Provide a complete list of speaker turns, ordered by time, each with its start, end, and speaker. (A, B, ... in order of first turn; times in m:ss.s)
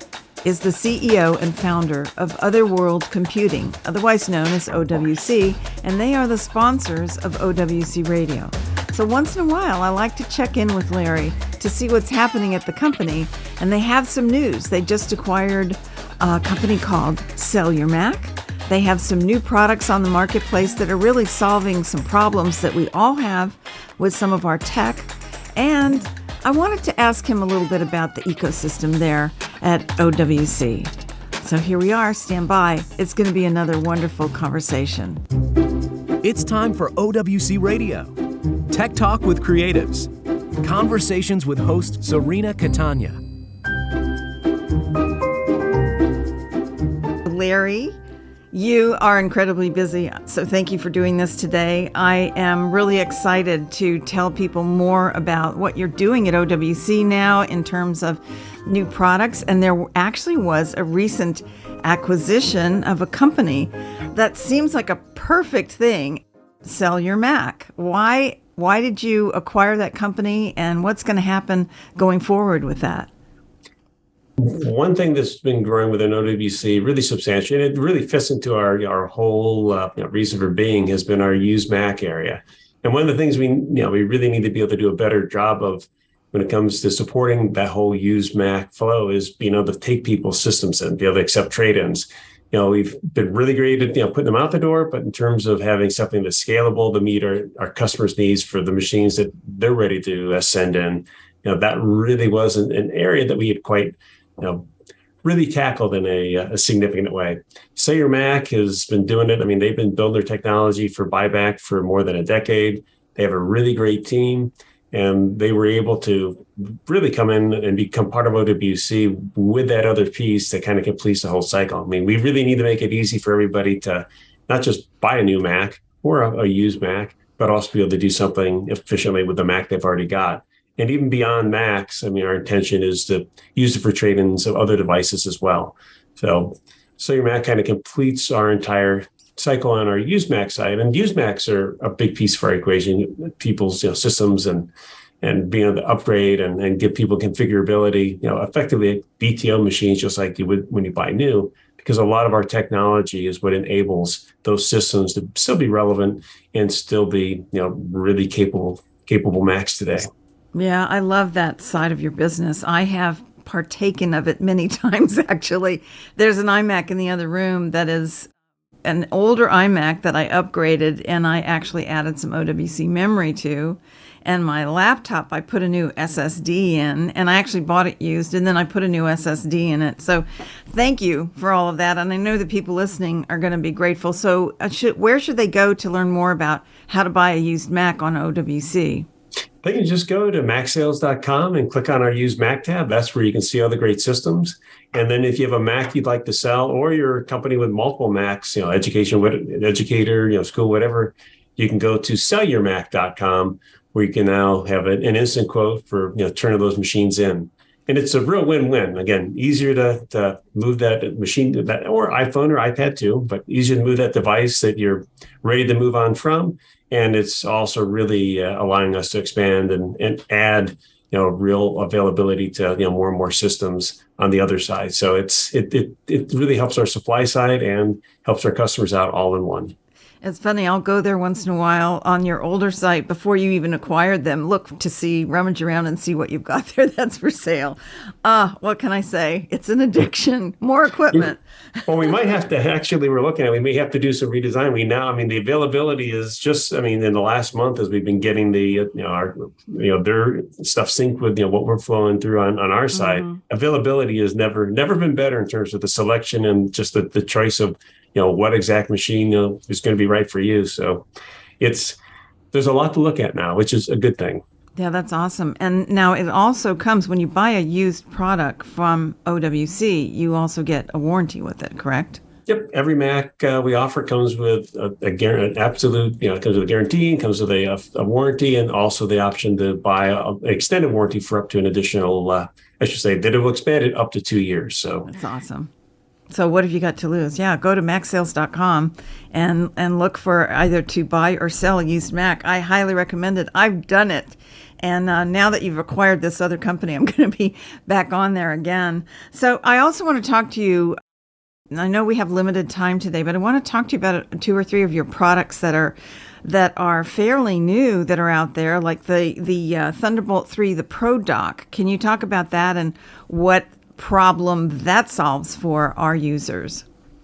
0:00.4-0:35.2 A
0:36.2-0:38.1 B
0:38.7-0:40.1 B
0:40.6-0:43.2 B
0:47.2-0:48.0 A
0:48.5-1:13.1 A
1:14.4-1:44.7 C
1:45.2-2:40.1 C
2:40.5-2:48.3 A
2:48.8-3:09.1 A
3:09.6-3:49.7 C
3:50.2-4:01.9 A
4:01.8-4:21.0 C
4:13.0-4:13.4 A
4:21.6-4:22.0 C
4:22.5-4:24.4 C
4:24.8-4:32.2 A
4:32.5-4:45.1 C
4:45.0-4:45.7 A
4:46.3-5:01.0 A
5:01.7-5:16.8 A